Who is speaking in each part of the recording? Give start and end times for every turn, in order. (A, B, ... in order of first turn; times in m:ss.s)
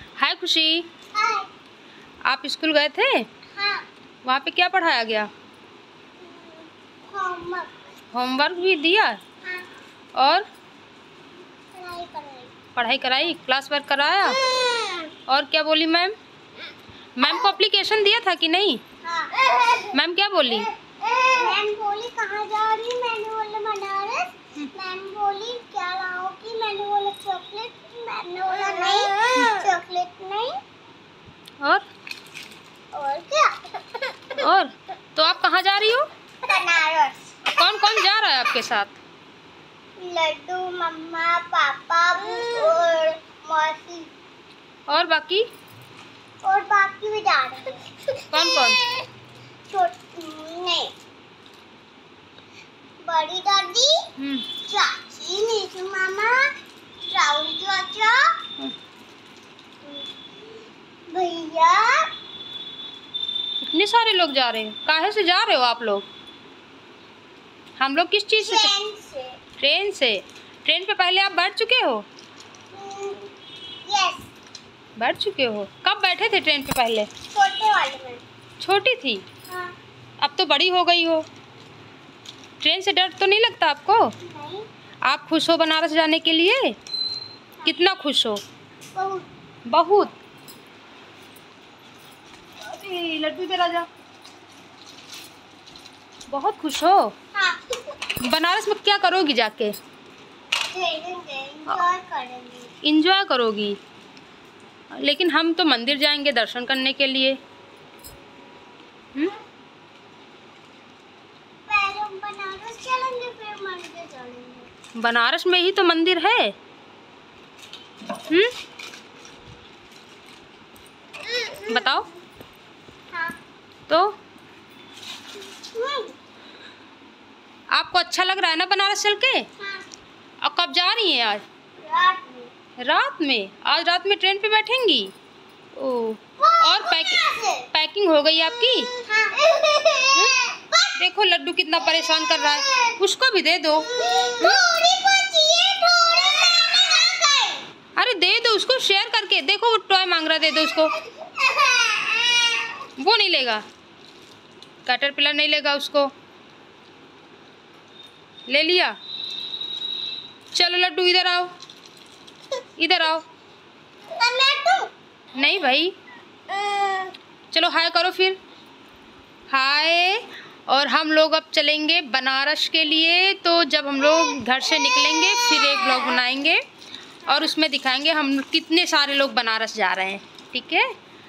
0:00.2-0:00.9 A
0:01.1-0:01.5 B
0:02.3-0:03.3 A
0:03.6-0:03.8 B
0:04.2-0:05.3 A
0:06.2-0:07.8 B
0:08.1-0:09.2 A
0:10.2-0:10.5 A
0:11.7-0:12.5 B
0:12.8-0:14.4 A
0:14.4-0:15.0 B
0:15.3-0:16.2 A
0:17.2-0:18.8 A
0:19.0-0:19.9 B
0:19.9-0:20.7 A
0:21.0-0:30.6 B
0:31.6-0:31.8 A
0:32.9-0:34.1 B
0:34.4-0:36.1 A
0:36.4-0:37.4 B
0:37.4-0:38.9 A
0:40.0-0:44.1 B
0:44.9-0:45.5 A
0:46.4-0:47.8 B
0:48.3-0:48.8 A
0:49.7-0:50.9 B
0:53.0-0:54.1 B
0:54.2-0:54.5 A
0:54.6-0:56.5 B
0:57.1-0:58.3 B
0:59.8-1:00.1 B
1:01.1-1:02.1 B
1:03.6-1:06.1 A
1:07.8-1:08.7 A
1:08.4-1:09.4 B
1:09.6-1:12.0 A
1:12.7-1:13.3 B
1:13.8-1:14.3 B
1:15.0-1:17.1 A
1:17.3-1:18.2 B
1:18.6-1:19.2 A
1:19.5-1:19.7 B
1:20.2-1:21.2 A
1:22.6-1:24.2 A
1:24.2-1:24.7 B
1:25.0-1:26.8 A
1:27.6-1:28.4 A
1:28.9-1:29.3 B
1:29.7-1:30.2 A
1:32.6-1:33.9 A
1:36.3-1:37.1 A
1:37.3-1:37.7 B
1:38.2-1:39.8 A
1:40.7-1:42.7 B
1:42.8-1:43.8 A
1:44.9-1:47.4 A
1:51.7-1:54.7 B
1:55.0-1:56.6 A
1:58.2-1:58.5 A
2:01.7-2:02.1 A
2:03.9-2:04.2 A
2:05.6-2:06.1 B
2:07.7-2:09.5 A
2:10.4-2:11.4 A
2:11.8-2:12.5 B
2:12.8-2:15.1 A
2:15.8-2:18.9 A
2:16.4-2:17.7 B
2:19.0-2:20.9 B
2:21.0-2:24.6 A
2:22.2-2:22.8 B
2:23.9-2:27.6 B
2:28.0-2:31.0 A
2:31.0-2:32.6 B
2:33.0-2:33.6 A
2:34.8-2:36.1 A
2:38.5-2:39.0 A
2:40.5-2:41.5 A
2:42.8-2:43.2 A
2:44.2-2:44.9 B
2:45.4-2:46.0 A
2:46.7-2:47.1 B
2:47.5-2:48.4 A
2:49.5-2:56.6 A
2:57.3-3:00.9 A